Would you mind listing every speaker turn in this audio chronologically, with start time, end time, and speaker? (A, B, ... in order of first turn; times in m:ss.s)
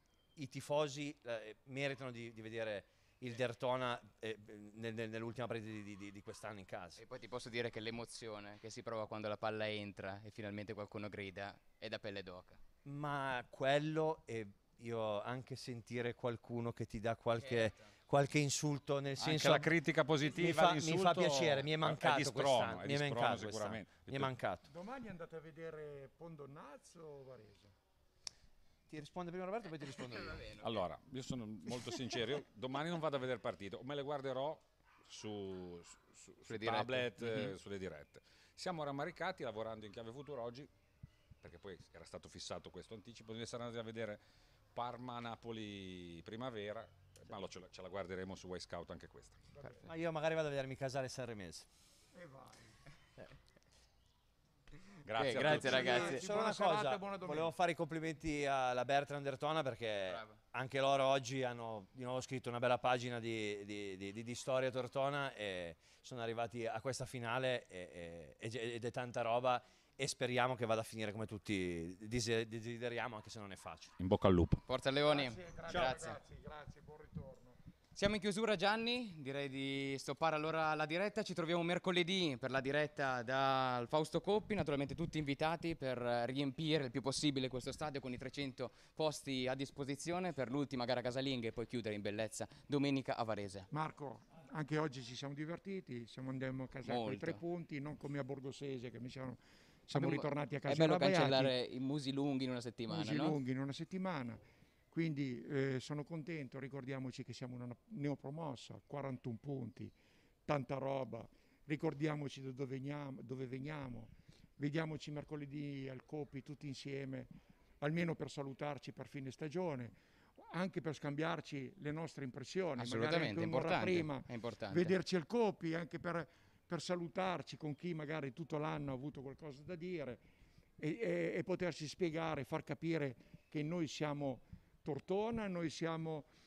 0:00.4-0:07.0 A
0:07.0-0:12.6 B
0:12.8-0:24.7 A
0:17.4-0:17.9 B
0:19.2-0:24.3 C
0:24.7-0:27.7 D
0:28.9-0:30.5 A
0:30.0-0:30.6 B
0:30.6-0:40.7 C
0:36.5-0:37.5 B
0:41.4-0:44.2 C
0:44.7-0:49.5 C
0:49.6-0:49.9 D
0:49.8-0:51.7 A
0:52.1-0:52.6 D
0:55.0-0:56.1 C
0:55.2-0:56.2 B
0:55.3-1:13.9 A
0:55.7-0:57.5 D
1:00.1-1:00.4 B
1:14.0-1:14.6 C
1:14.7-1:16.2 B
1:15.0-1:17.6 D
1:18.0-1:33.7 B
1:33.7-1:41.5 D
1:36.8-1:37.4 B
1:39.9-1:43.4 B
1:42.9-1:49.9 D
1:50.4-2:10.2 D
2:02.8-2:04.9 B
2:10.8-2:16.3 D